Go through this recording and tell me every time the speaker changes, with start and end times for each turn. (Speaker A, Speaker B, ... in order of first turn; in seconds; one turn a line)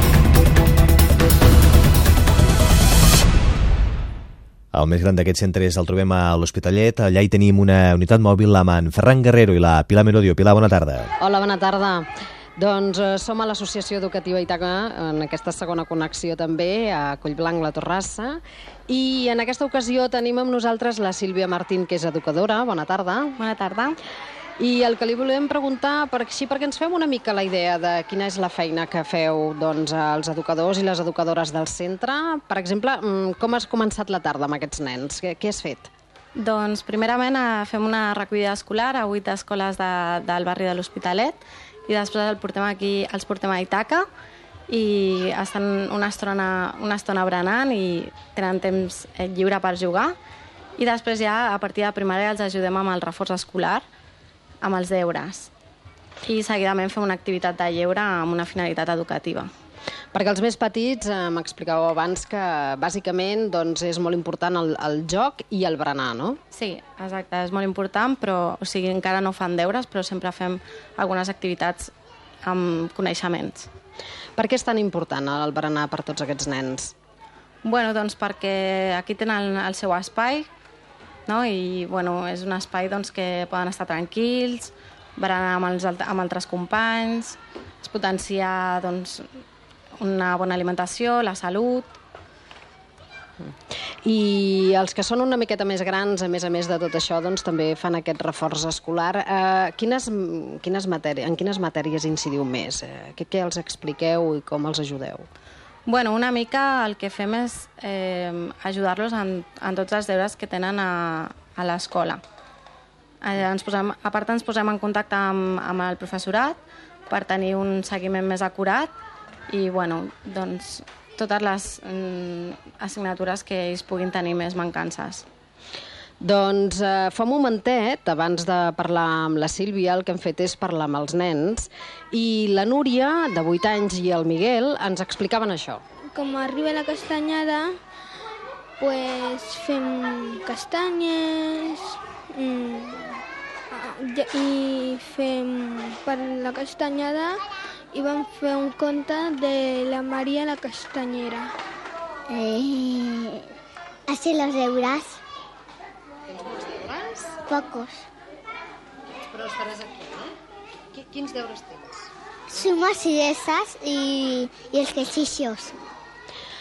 Speaker A: 4.7-11.1
Speaker B: 11.2-23.4
Speaker C: 23.4-24.0
Speaker B: 24.6-35.9
Speaker C: 36.4-44.0
Speaker C: 44.7-50.1
Speaker C: 50.8-53.8
Speaker C: 54.6-55.5
Speaker C: 56.2-59.5
Speaker B: 60.1-66.4
Speaker C: 66.5-71.9
Speaker C: 72.4-73.7
Speaker B: 74.4-76.9
Speaker C: 77.6-80.5
Speaker C: 81.3-89.4
Speaker C: 90.0-92.0
Speaker B: 94.0-105.3
Speaker C: 105.8-112.2
Speaker C: 113.2-118.9
Speaker C: 119.5-125.2
Speaker B: 126.2-135.8
Speaker D: 136.1-137.7
Speaker D: 138.8-143.2
Speaker D: 143.7-147.4
Speaker D: 147.9-151.5
Speaker E: 152.3-153.4
Speaker E: 154.1-155.2
Speaker B: 156.3-157.4
Speaker E: 157.5-158.0
Speaker B: 159.2-160.3
Speaker B: 160.9-162.1
Speaker E: 162.5-165.8